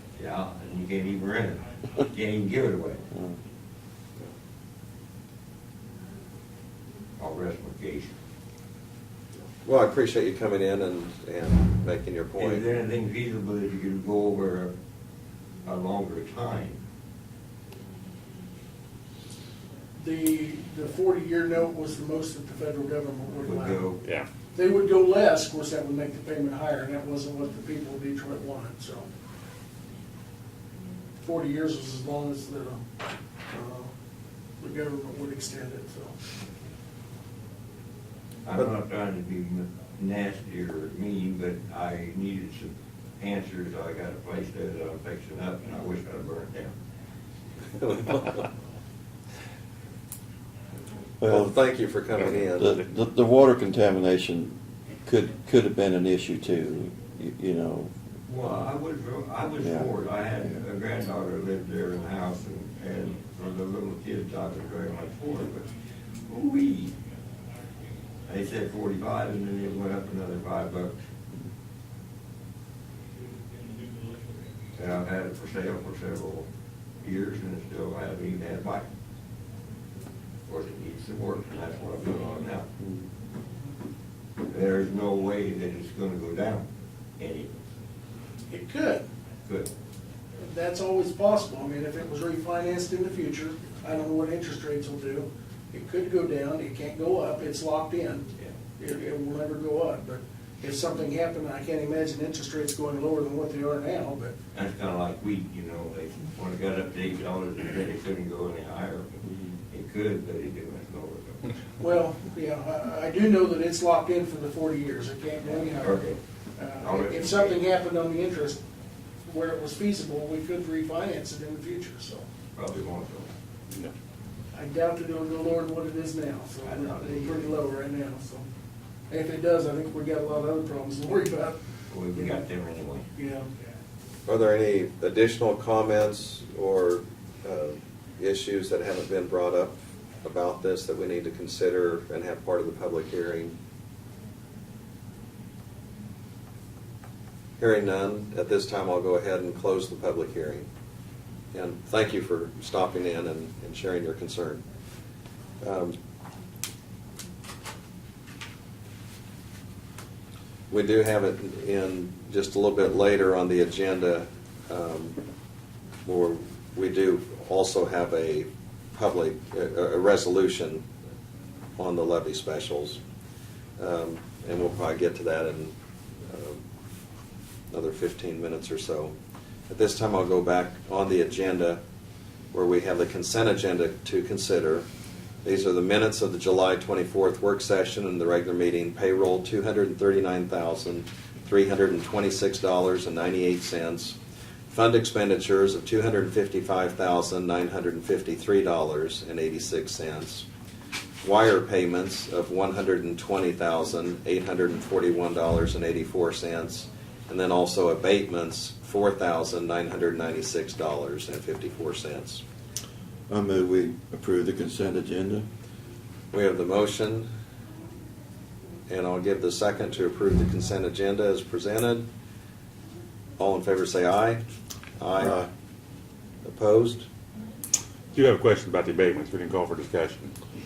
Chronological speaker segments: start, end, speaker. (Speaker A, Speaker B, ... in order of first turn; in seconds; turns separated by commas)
Speaker A: 0.2-3.0, Speaker B: 3.1-3.4, Speaker A: 7.2-8.2, Speaker C: 9.6-12.6, Speaker A: 12.4-14.7, Speaker A: 15.6-16.8, Speaker D: 19.9-23.9, Speaker A: 23.3-24.0, Speaker D: 24.5-29.1, Speaker D: 31.2-32.8, Speaker D: 33.5-33.9, Speaker D: 34.6-36.1, Speaker A: 38.4-46.7, Speaker B: 51.2-51.5, Speaker C: 51.2-52.7, Speaker B: 52.5-57.9, Speaker A: 58.3-65.7, Speaker B: 59.6-60.6, Speaker A: 66.2-66.9, Speaker A: 68.2-71.0, Speaker A: 74.8-76.5, Speaker A: 77.0-78.8, Speaker A: 80.5-82.7, Speaker B: 82.8-83.0, Speaker A: 84.5-86.7, Speaker A: 87.2-87.6, Speaker D: 88.5-89.1, Speaker D: 90.4-98.2, Speaker D: 98.8-104.3, Speaker A: 104.5-111.5, Speaker B: 109.3-109.5, Speaker D: 111.8-118.6, Speaker A: 115.4-116.2, Speaker A: 116.7-117.7, Speaker D: 119.2-122.3, Speaker A: 122.5-123.3, Speaker D: 124.5-128.4, Speaker A: 126.6-127.6, Speaker D: 129.1-132.4, Speaker A: 131.9-133.1, Speaker D: 133.2-133.5, Speaker C: 134.2-143.6, Speaker C: 147.6-150.7, Speaker C: 151.5-154.6, Speaker C: 155.6-155.9, Speaker C: 160.7-165.2, Speaker C: 166.1-170.8, Speaker C: 171.8-173.0, Speaker C: 173.8-175.7, Speaker C: 176.2-176.6, Speaker C: 177.7-179.1, Speaker C: 179.7-181.8, Speaker C: 182.5-184.8, Speaker C: 185.4-194.2, Speaker C: 194.7-200.4, Speaker C: 201.2-212.4, Speaker B: 213.3-215.4, Speaker C: 216.3-217.3, Speaker C: 218.9-222.1, Speaker C: 223.4-224.4, Speaker C: 225.0-225.5, Speaker C: 226.4-227.1, Speaker E: 228.1-230.3